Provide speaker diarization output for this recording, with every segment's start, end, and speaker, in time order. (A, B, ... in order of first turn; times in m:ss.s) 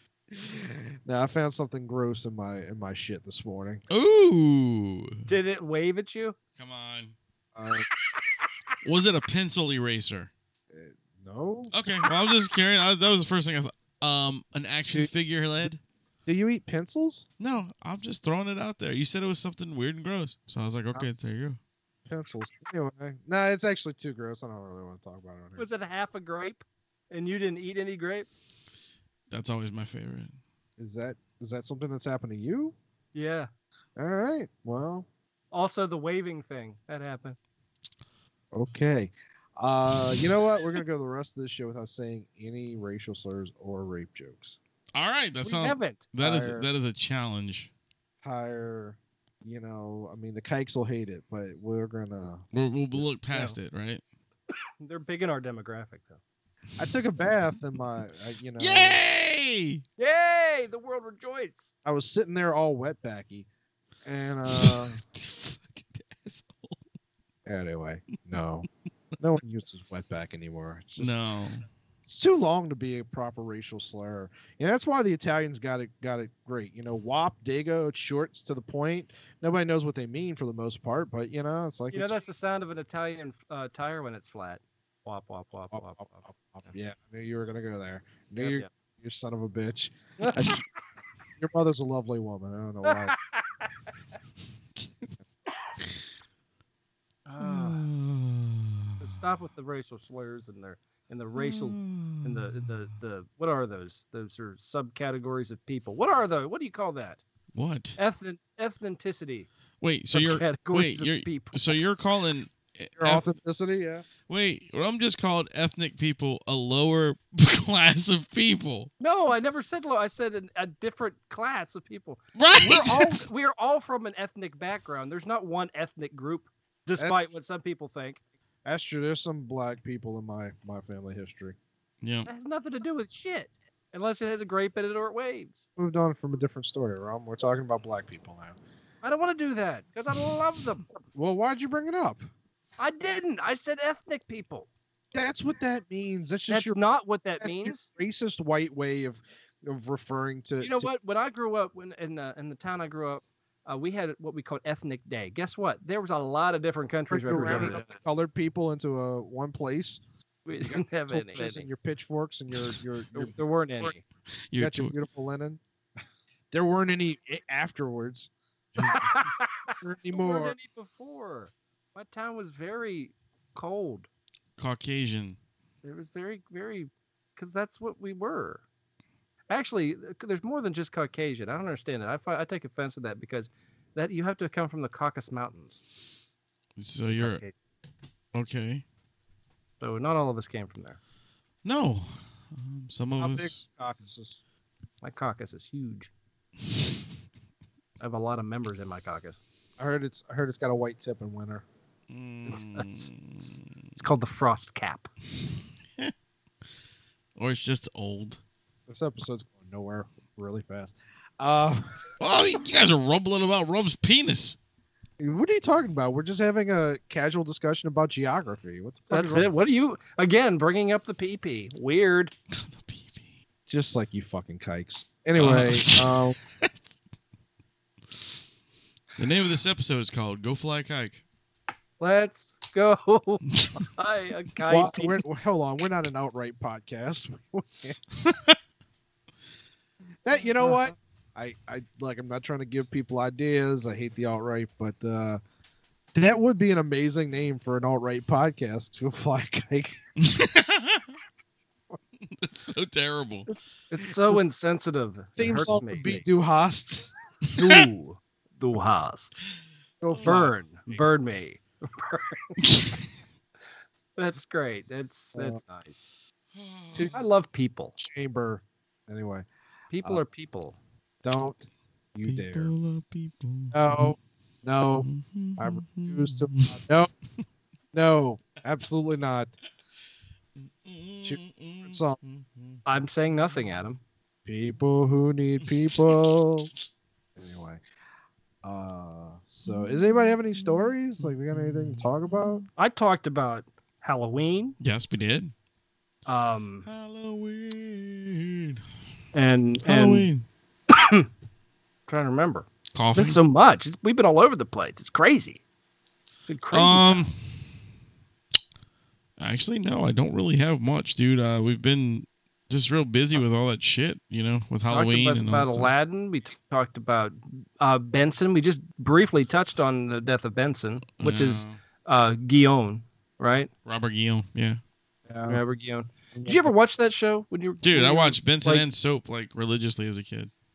0:00.3-0:03.8 A
0:03.9-0:05.3 B
0:05.3-0:06.4 C
0:06.6-0:07.2 B
0:07.6-0:07.9 A
0:08.8-0:10.3 B
0:10.7-0:11.7 A
0:11.7-0:15.8 B
0:16.3-0:17.3 A
0:17.4-0:21.6 B
0:22.1-0:25.7 A
0:25.6-0:28.4 C
0:29.3-0:30.4 B
0:30.8-0:32.8 A
0:33.1-0:33.5 C
0:34.0-0:35.1 A
0:35.5-0:37.4 C
0:38.5-0:44.6 A
0:44.9-0:47.7 B
0:45.4-0:46.5 C
0:46.3-0:46.6 A
0:48.2-0:53.0 A
0:52.5-0:54.0 B
0:53.3-0:53.6 C
0:54.8-0:56.2 C
0:56.8-0:59.0 A
0:58.6-0:59.8 B
1:00.0-1:01.7 C
1:01.8-1:03.5 A
1:04.0-1:05.0 A
1:04.5-1:06.8 B
1:07.5-1:11.2 A
1:11.0-1:11.7 B
1:12.0-1:22.2 A
1:21.9-1:26.2 C
1:25.7-1:30.6 A
1:28.4-1:28.7 C
1:30.2-1:30.6 C
1:31.4-1:33.2 A
1:32.8-1:33.7 C
1:34.8-1:35.1 B
1:37.3-1:37.9 C
1:37.4-1:38.9 B
1:39.0-1:47.2 C
1:41.4-1:42.7 B
1:47.5-1:48.0 B
1:48.0-1:49.5 C
1:49.8-1:53.3 B
1:50.1-1:51.9 C
1:53.0-1:54.0 A
1:54.3-1:58.9 B
1:59.0-2:08.2 C
2:02.4-2:03.2 B
2:08.6-2:11.6 A
2:12.0-2:12.3 B
2:12.3-2:15.7 C
2:15.8-2:18.6 A
2:19.0-2:20.9 C
2:21.2-2:22.3 A
2:22.8-2:24.7 C
2:25.1-2:26.8 A
2:26.5-2:27.9 C
2:27.4-2:30.9 A
2:30.6-2:38.0 C
2:37.1-2:40.0 A
2:40.5-2:41.7 C
2:40.6-2:43.9 A
2:43.1-2:44.0 C
2:44.5-2:45.0 B
2:44.6-2:45.6 A
2:46.5-2:48.3 A
2:48.8-2:49.2 B
2:48.9-2:54.1 C
2:49.8-2:50.6 A
2:54.6-2:55.4 B
2:55.8-2:58.6 C
2:59.5-3:05.8 C
3:06.8-3:07.4 B
3:07.2-3:07.5 C
3:08.3-3:08.8 B
3:09.8-3:11.0 C
3:11.6-3:13.6 B
3:13.2-3:14.4 A
3:15.0-3:16.1 C
3:18.0-3:19.4 C
3:19.8-3:21.6 A
3:22.1-3:23.6 B
3:22.5-3:23.1 C
3:24.0-3:25.1 C
3:27.4-3:28.4 B
3:28.9-3:32.0 A
3:32.2-3:34.6 B
3:35.2-3:39.5 A
3:39.1-3:42.3 C
3:42.5-3:43.3 B
3:43.7-3:46.4 A
3:45.4-3:46.8 B
3:49.2-3:51.2 B
3:52.0-3:55.2 C
3:54.7-3:58.0 A
3:58.2-3:58.5 B
4:00.2-4:05.4 A
4:06.1-4:10.0 A
4:10.2-4:11.1 B
4:12.3-4:13.5 B
4:13.9-4:16.2 C
4:15.4-4:17.1 A
4:17.6-4:19.3 C
4:20.0-4:20.6 A
4:20.2-4:22.5 C
4:22.6-4:23.0 B
4:24.2-4:26.1 C
4:25.4-4:25.6 A
4:26.6-4:27.2 B
4:27.0-4:28.0 C
4:28.0-4:29.5 A
4:29.9-4:30.8 C
4:31.2-4:32.7 A
4:32.2-4:34.1 B
4:33.7-4:37.1 A
4:35.0-4:36.8 B
4:37.9-4:39.5 A
4:40.8-4:42.8 B
4:41.2-4:42.2 A
4:42.9-4:44.0 C
4:44.5-4:46.7 A
4:47.4-4:47.8 A
4:48.6-4:52.6 A
4:51.6-4:52.0 B
4:52.8-4:54.8 C
4:54.8-4:55.5 B
4:56.3-4:56.9 C
4:56.9-4:58.8 B
4:59.3-5:00.3 C
4:59.8-5:00.4 B
5:00.9-5:01.3 C
5:02.1-5:05.6 C
5:02.9-5:03.4 B
5:06.5-5:07.3 C
5:06.7-5:07.6 B
5:09.4-5:15.9 B
5:14.9-5:23.7 C
5:21.2-5:21.8 B
5:23.9-5:24.8 B
5:25.3-5:25.6 A
5:25.5-5:28.8 C
5:26.4-5:26.7 A
5:27.8-5:30.5 B